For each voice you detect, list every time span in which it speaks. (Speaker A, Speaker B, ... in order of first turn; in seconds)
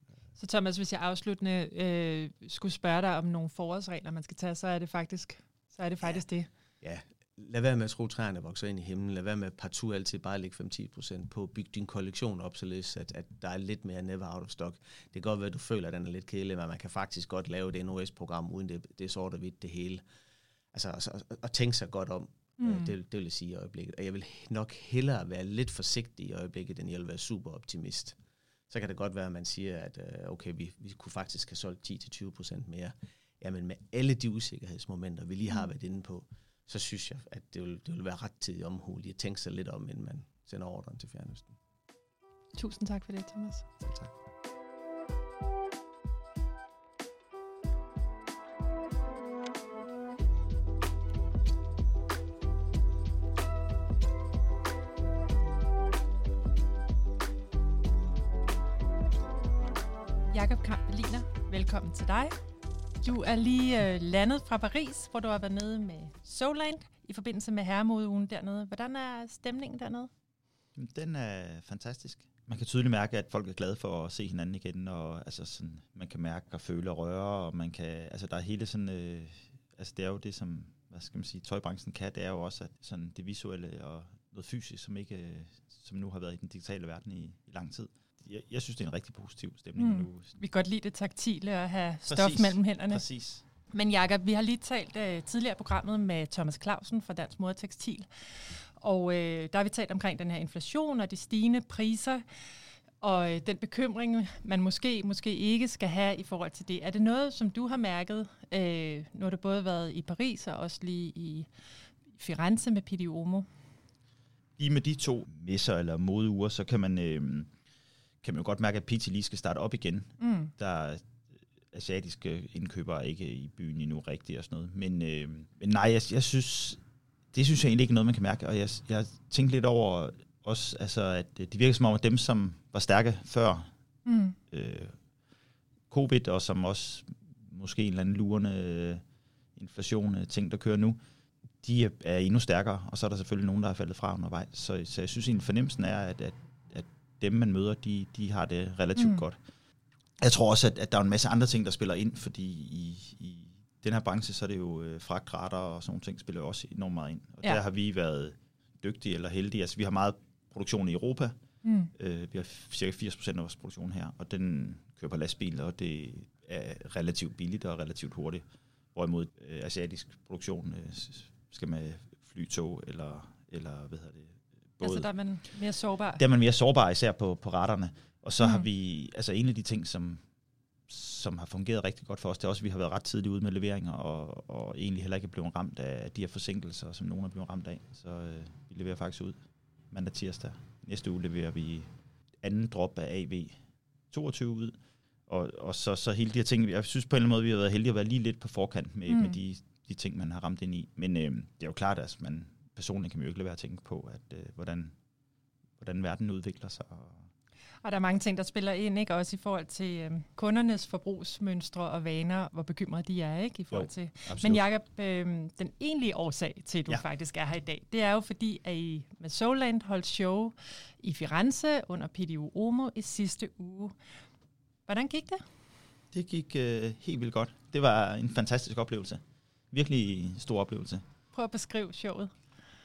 Speaker A: 0.4-6.5, 22.6-22.9, 42.5-43.7, 60.3-62.4, 63.0-70.1, 89.8-93.0, 93.7-102.2, 103.0-111.5, 112.1-113.5, 120.2-120.5, 134.1-134.3, 148.9-149.2, 161.6-161.9, 174.8-176.2, 178.4-178.7, 199.1-199.4, 207.8-223.9, 224.9-225.4, 231.3-232.3
Speaker B: 6.8-20.0, 20.7-28.2, 28.7-41.5, 43.8-44.1
Speaker C: 70.7-90.3, 92.1-93.4, 114.6-117.5, 118.2-121.0, 121.7-126.8, 127.3-133.7, 134.5-134.9, 135.9-139.0, 139.6-141.0, 141.6-149.4, 150.2-161.3, 162.0-168.4, 168.9-175.1, 176.2-180.2, 180.9-189.4, 189.9-191.9, 192.4-193.6, 194.1-194.8, 195.3-204.9, 205.8-207.3, 213.7-214.6, 226.1-231.0